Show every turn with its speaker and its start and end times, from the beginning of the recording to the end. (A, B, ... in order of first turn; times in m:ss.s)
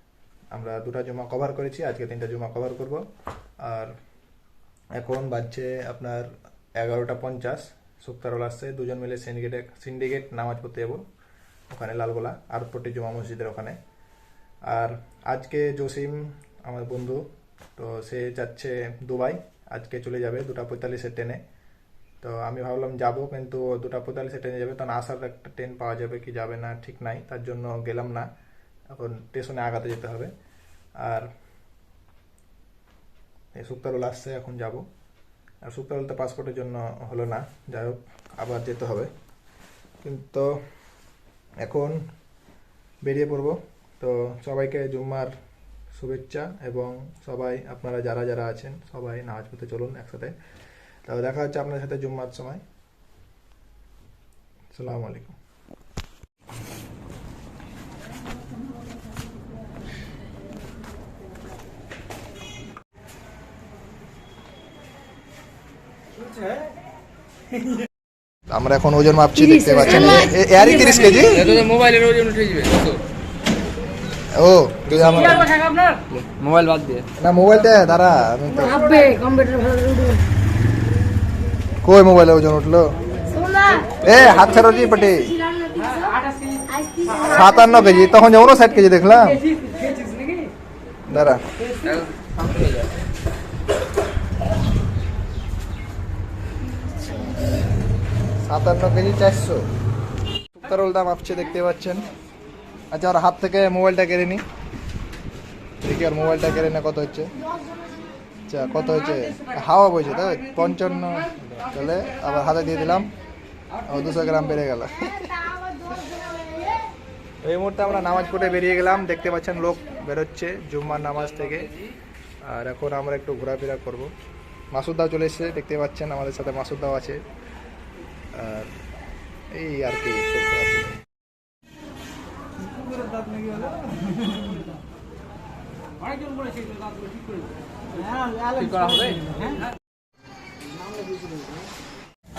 0:00.5-0:03.0 A
0:03.6-0:04.0 A
0:05.0-0:11.0 A
0:11.7-0:13.8 A
0:14.7-0:17.2 A
0:17.8-0:21.4 A
0:22.2-0:28.3 A
0:28.9-0:30.3 A
0:31.0-0:31.3 A
0:33.5-0:34.8 A
0:35.6-0:39.1 A
0:40.0-0:40.6 A
0:41.6-0:42.0 A
0:43.0-0:45.3 A
0:45.9-0:50.3 A
0:51.1-0:52.6 A
0:54.7-0:55.4 A
1:08.5-1:11.6 A
1:11.1-1:13.0 B
1:14.3-1:15.5 A
1:14.9-1:17.1 B
1:17.2-1:19.0 A
1:18.9-1:20.2 C
1:21.8-1:23.0 A
1:23.3-1:23.7 C
1:23.7-1:24.5 B
1:24.0-1:25.4 A
1:25.5-1:26.2 C
1:26.7-1:27.0 C
1:27.0-1:29.5 A
1:29.7-1:30.4 C
1:31.1-1:31.5 A
1:31.7-1:32.9 B
1:38.4-1:39.7 A
1:40.6-1:42.1 A
1:42.9-1:44.4 A
1:45.8-1:47.4 A
1:48.5-1:53.1 A
1:53.8-1:55.5 A
1:57.4-2:01.7 A
2:02.4-2:04.1 A
2:04.7-2:07.2 A
2:08.3-2:08.7 A
2:09.5-2:11.0 A
2:18.0-2:19.6 B